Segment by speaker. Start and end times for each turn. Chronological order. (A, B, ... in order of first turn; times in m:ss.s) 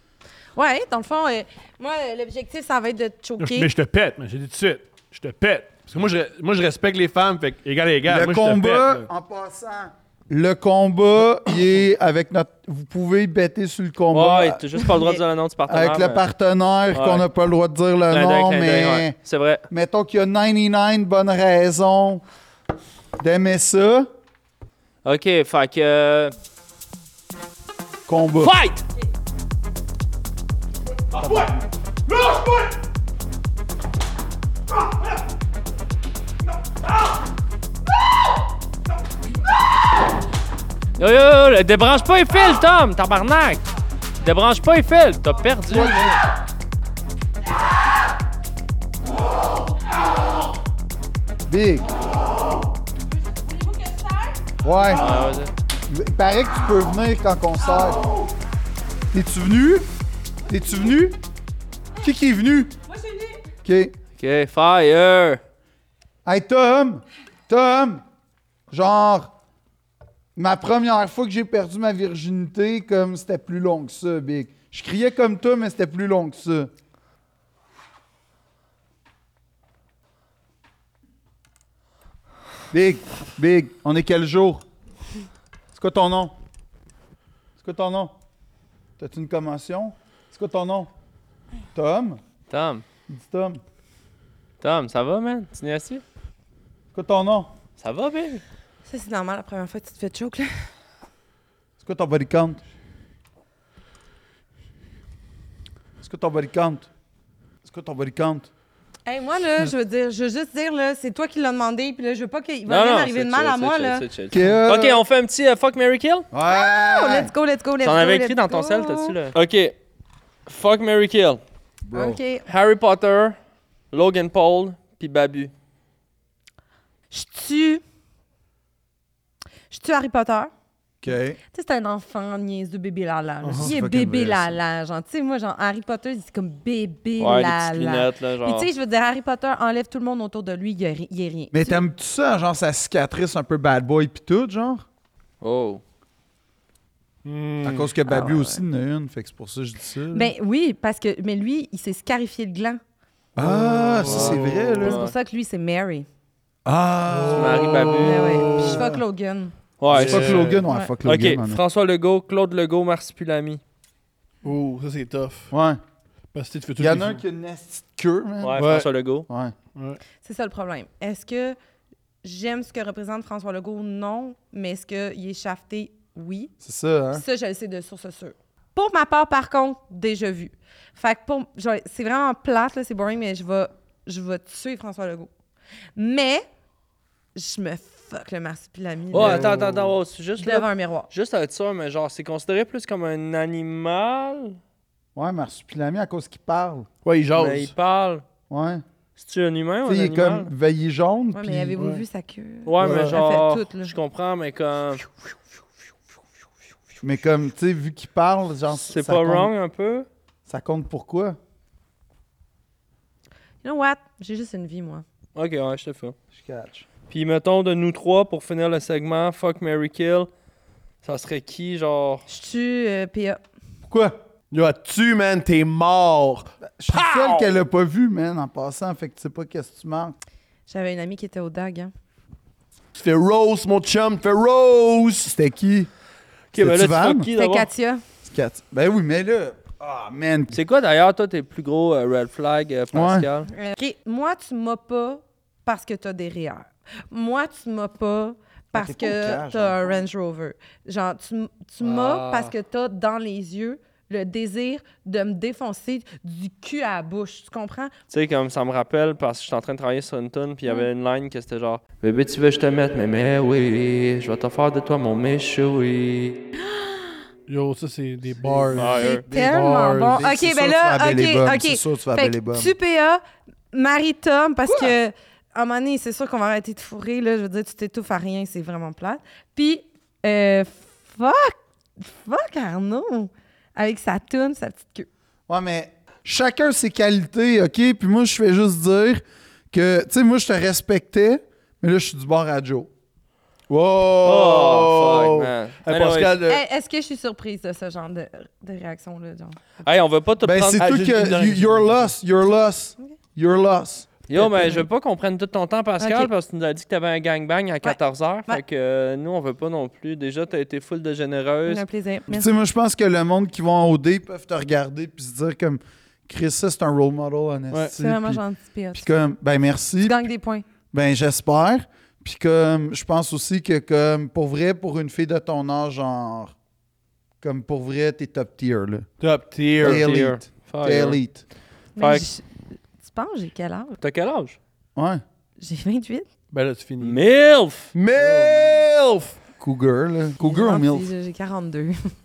0:00.5-0:03.7 A
0:03.4-0:09.0 B
0:08.1-0:14.6 C
0:14.1-0:16.2 D
0:14.9-0:15.2 A
0:15.7-0:19.1 C
0:16.9-0:17.3 D
0:18.1-0:19.6 D
0:19.7-0:22.2 C
0:23.2-0:24.1 C
0:25.0-0:26.3 D
0:28.1-0:28.5 C
0:28.4-0:28.8 D
0:31.1-0:31.6 C
0:41.0-0:43.6 D
0:44.2-0:46.2 D
0:45.7-0:46.2 C
0:51.5-0:51.9 C
0:54.6-0:55.2 C
0:54.9-0:55.5 D
0:55.9-0:58.1 C
0:59.1-0:59.8 C
1:00.4-1:01.2 C
1:02.0-1:02.7 C
1:02.9-1:03.3 A
1:03.6-1:03.9 C
1:04.2-1:05.4 D
1:06.2-1:08.0 C
1:08.7-1:09.3 C
1:10.4-1:16.7 C
1:22.7-1:24.6 C
1:25.7-1:26.4 C
1:27.6-1:28.1 C
1:29.0-1:30.9 C
1:31.7-1:32.2 C
1:32.5-1:32.8 D
1:33.1-1:33.6 C
1:34.6-1:36.0 D
1:36.9-1:37.5 C
1:37.8-1:38.4 D
1:38.8-1:40.7 A
1:41.8-1:42.6 C
1:46.0-1:46.9 C
1:47.6-1:48.5 C
1:49.0-1:54.0 A
1:52.7-1:56.3 D
1:54.3-1:55.0 C
1:56.3-1:57.3 C
1:56.5-1:59.2 A
1:57.8-1:59.7 D
2:00.4-2:01.4 D
2:01.8-2:02.2 C
2:01.9-2:02.4 A
2:02.5-2:03.4 D
2:03.9-2:05.5 D
2:07.1-2:07.8 A
2:09.7-2:10.5 A
2:11.0-2:11.4 C
2:11.5-2:21.8 A
2:13.4-2:13.7 B
2:13.6-2:14.6 C
2:17.2-2:18.7 D
2:21.5-2:24.8 C
2:25.4-2:25.8 D
2:27.2-2:27.9 B
2:27.6-2:30.3 C
2:28.0-2:28.6 A
2:30.1-2:32.8 A
2:33.4-2:35.0 C
2:33.4-2:34.8 B
2:34.0-2:35.1 D
2:34.8-2:36.1 A
2:36.6-2:39.0 C
2:37.1-2:38.8 B
2:37.3-2:38.4 D
2:38.0-2:39.5 A
2:39.8-2:43.6 D
2:39.9-2:41.6 C
2:39.9-2:40.6 B
2:44.4-2:45.5 B
2:45.5-2:45.8 C
2:46.3-2:47.2 B
2:46.8-2:48.6 C
2:48.4-2:49.3 D
2:48.6-2:48.9 B
2:49.3-2:49.5 C
2:49.7-2:50.0 B
2:50.2-2:51.6 A
2:52.2-2:56.5 A
2:56.6-2:57.2 C
2:57.1-3:05.3 A
3:06.0-3:06.4 A
3:07.3-3:09.6 A
3:09.1-3:14.6 D
3:09.1-3:09.9 B
3:10.4-3:11.1 A
3:15.1-3:16.9 C
3:17.0-3:17.7 B
3:17.3-3:18.2 D
3:18.5-3:18.8 C
3:19.2-3:20.5 D
3:19.8-3:21.8 C
3:21.3-3:23.9 A
3:21.8-3:22.0 B
3:22.6-3:25.1 D
3:22.8-3:23.2 B
3:27.0-3:29.5 C
3:28.7-3:30.1 D
3:30.5-3:31.4 C
3:33.6-3:35.0 A
3:35.3-3:36.2 D
3:36.3-3:36.8 C
3:37.1-3:40.3 D
3:41.0-3:42.2 D
3:42.3-3:43.4 A
3:43.9-3:44.2 C
3:44.5-3:46.5 B
3:46.6-3:50.2 C
3:46.9-3:47.5 D
3:50.7-3:51.9 A
3:52.9-3:55.3 B
3:55.2-3:55.9 C
3:56.5-3:57.7 D
3:56.5-3:57.3 C
3:57.4-3:58.0 A
3:58.2-4:00.6 C
4:00.5-4:03.5 D
4:02.9-4:03.3 C
4:03.5-4:17.9 A
4:08.7-4:10.1 C
4:11.8-4:12.5 D
4:18.1-4:26.4 D
4:26.7-4:27.2 A
4:27.5-4:30.2 B
4:28.4-4:32.7 C
4:28.7-4:29.2 D
4:29.0-4:33.2 A
4:33.7-4:45.1 A
4:45.5-4:52.9 C
4:53.7-4:56.6 B
4:54.2-4:56.4 D
4:56.4-4:59.8 A
4:59.8-5:00.8 D
5:00.4-5:04.1 C
5:00.8-5:02.1 B
5:04.3-5:11.8 D
5:04.3-5:04.8 A
5:06.0-5:06.3 A
5:07.8-5:08.6 A
5:11.6-5:12.5 A
5:12.3-5:18.4 C
5:17.7-5:18.0 B
5:18.0-5:19.2 A
5:18.9-5:20.2 C
5:20.0-5:20.6 A
5:20.9-5:26.5 C
5:27.4-5:29.1 C
5:29.2-5:30.1 B
5:29.8-5:31.4 C
5:29.8-5:31.2 D
5:32.0-5:32.4 A
5:32.0-5:32.3 D
5:33.0-5:34.0 A
5:34.0-5:34.6 D
5:34.9-5:35.2 C
5:35.6-5:36.3 A
5:36.5-5:37.2 B
5:37.0-5:37.9 D
5:37.9-5:39.4 B
5:38.2-5:38.8 C
5:39.6-5:41.1 C
5:40.4-5:42.1 A